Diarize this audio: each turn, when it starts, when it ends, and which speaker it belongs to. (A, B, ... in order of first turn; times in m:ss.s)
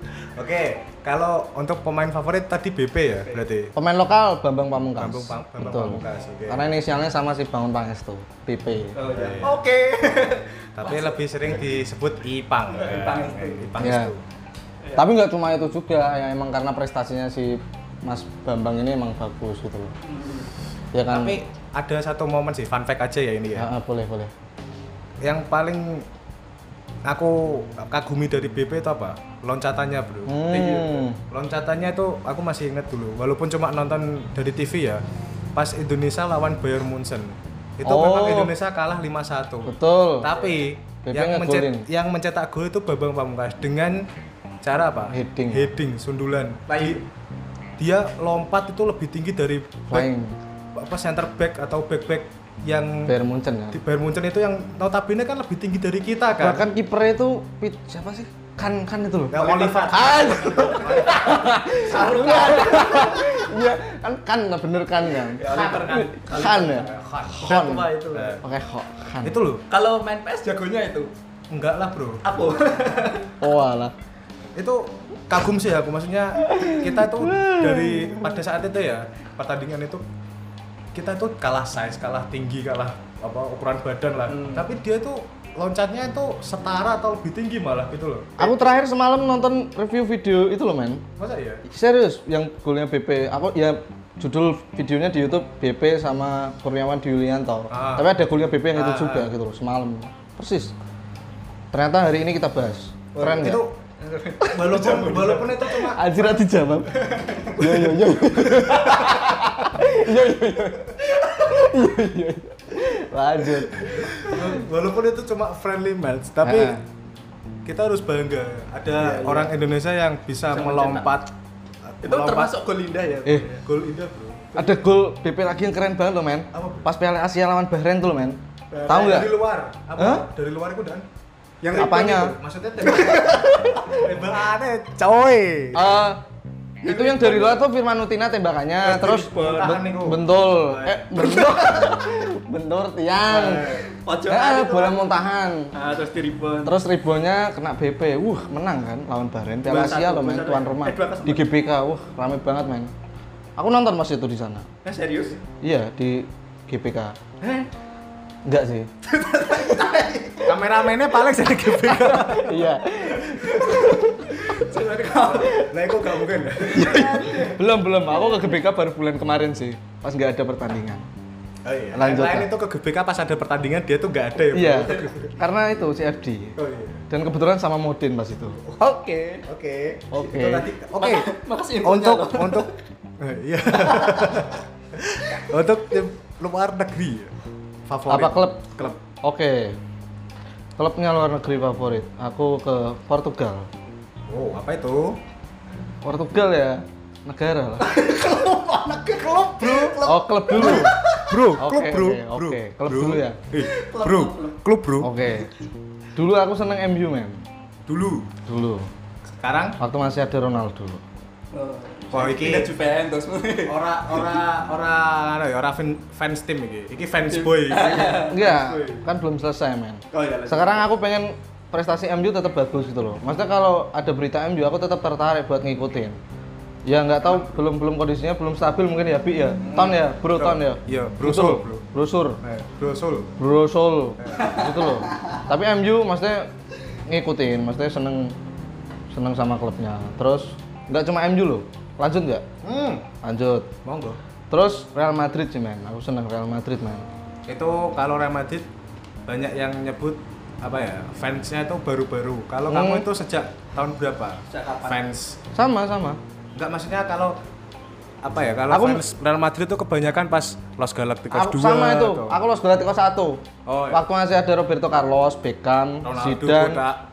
0:00.3-0:03.7 A
0:03.8-0:09.0 B
0:05.0-0:06.7 A
0:08.9-0:11.6 C
0:09.1-0:09.6 A
0:10.8-0:14.2 A
0:12.7-0:13.7 C
0:13.8-0:14.1 B
0:14.8-0:15.1 C
0:15.0-0:19.9 B
0:20.0-0:20.5 C
0:20.9-0:21.4 B
0:21.1-0:23.7 A
0:23.6-0:24.3 B
0:25.2-0:26.1 A
0:27.0-0:35.0 A
0:30.3-0:31.2 B
0:30.5-0:31.0 C
0:35.6-0:44.1 A
0:37.8-0:38.5 B
0:39.7-0:40.3 B
0:40.3-0:40.6 C
0:41.1-0:41.9 B
0:44.6-0:47.0 A
0:45.1-0:45.7 B
0:46.7-0:47.0 C
0:47.8-0:50.1 A
0:49.9-0:50.4 B
0:50.8-0:53.1 A
0:53.1-0:53.8 B
0:53.7-0:56.6 A
0:56.4-1:07.9 B
0:59.3-1:02.6 A
0:59.4-1:03.4 C
1:05.1-1:08.4 C
1:05.4-1:07.5 A
1:08.1-1:08.4 A
1:08.4-1:09.4 B
1:09.2-1:09.6 A
1:09.7-1:11.1 C
1:11.5-1:12.2 A
1:12.2-1:13.4 C
1:13.4-1:14.0 B
1:14.6-1:20.0 A
1:16.5-1:18.2 B
1:21.0-1:28.5 A
1:24.3-1:24.7 C
1:28.4-1:31.0 B
1:31.2-1:31.6 A
1:31.7-1:40.7 B
1:37.7-1:38.1 A
1:38.7-1:39.3 A
1:41.7-1:43.6 B
1:43.1-1:45.9 C
1:43.2-1:43.8 A
1:44.4-1:46.2 A
1:45.9-1:47.0 B
1:46.9-1:48.0 C
1:47.6-1:54.6 B
1:48.5-1:49.3 C
1:51.2-1:51.6 C
1:53.8-1:56.8 A
1:56.4-1:56.8 B
1:57.7-2:01.3 A
1:59.0-1:59.5 C
2:00.5-2:01.1 C
2:01.9-2:02.6 A
2:02.0-2:03.6 C
2:03.6-2:04.6 A
2:04.6-2:09.4 B
2:06.5-2:06.9 A
2:08.7-2:09.3 C
2:08.9-2:11.1 A
2:10.0-2:10.3 B
2:11.6-2:14.1 C
2:11.7-2:12.4 B
2:11.8-2:15.9 A
2:15.7-2:16.2 B
2:16.8-2:17.6 C
2:16.8-2:25.7 B
2:18.9-2:19.8 C
2:18.9-2:20.9 A
2:21.0-2:22.1 C
2:23.3-2:23.8 A
2:23.4-2:25.0 C
2:25.7-2:26.8 C
2:26.6-2:32.9 B
2:29.6-2:31.5 C
2:33.6-2:34.7 B
2:34.8-2:35.4 C
2:35.6-2:37.2 B
2:37.4-2:37.7 C
2:38.4-2:38.9 B
2:39.1-2:40.6 C
2:40.4-2:42.6 A
2:42.0-2:42.5 C
2:42.1-2:44.2 B
2:43.1-2:47.6 C
2:44.7-2:47.4 A
2:46.8-2:51.1 B
2:51.6-2:55.4 A
2:51.9-2:52.5 B
2:54.5-2:56.6 B
2:56.6-2:57.0 A
2:57.1-2:58.6 B
2:58.8-2:59.5 C
2:59.5-3:07.3 A
3:00.1-3:00.7 B
3:01.0-3:02.8 C
3:03.8-3:04.4 C
3:07.9-3:09.0 A
3:08.1-3:09.8 B
3:10.8-3:13.7 B
3:14.3-3:15.2 A
3:16.0-3:17.9 B
3:17.8-3:21.4 C
3:19.1-3:20.0 A
3:20.0-3:21.0 B
3:20.6-3:25.1 A
3:21.6-3:23.4 B
3:23.6-3:24.6 C
3:25.0-3:25.5 B
3:26.2-3:27.4 B
3:27.9-3:28.3 A
3:28.5-3:28.9 B
3:29.4-3:29.8 A
3:29.8-3:31.0 B
3:31.5-3:34.4 C
3:32.1-3:32.7 A
3:33.7-3:38.3 A
3:37.3-3:39.1 C
3:38.3-3:46.2 B
3:40.1-3:40.9 C
3:46.8-3:52.4 B
3:49.6-3:51.8 A
3:52.4-3:53.4 A
3:53.4-3:56.5 B
3:54.2-3:54.7 A
3:54.4-3:54.6 C
3:57.1-3:58.4 B
3:59.1-4:02.5 B
4:02.6-4:03.1 A
4:03.2-4:03.7 B
4:03.8-4:04.2 A
4:04.5-4:07.1 B
4:07.5-4:08.7 A
4:09.3-4:15.4 A
4:12.7-4:13.1 B
4:14.5-4:15.1 C
4:15.5-4:16.2 B
4:16.6-4:17.4 A
4:18.2-4:22.4 A
4:18.7-4:19.0 B
4:21.3-4:26.8 B
4:23.7-4:24.0 A
4:26.0-4:27.0 A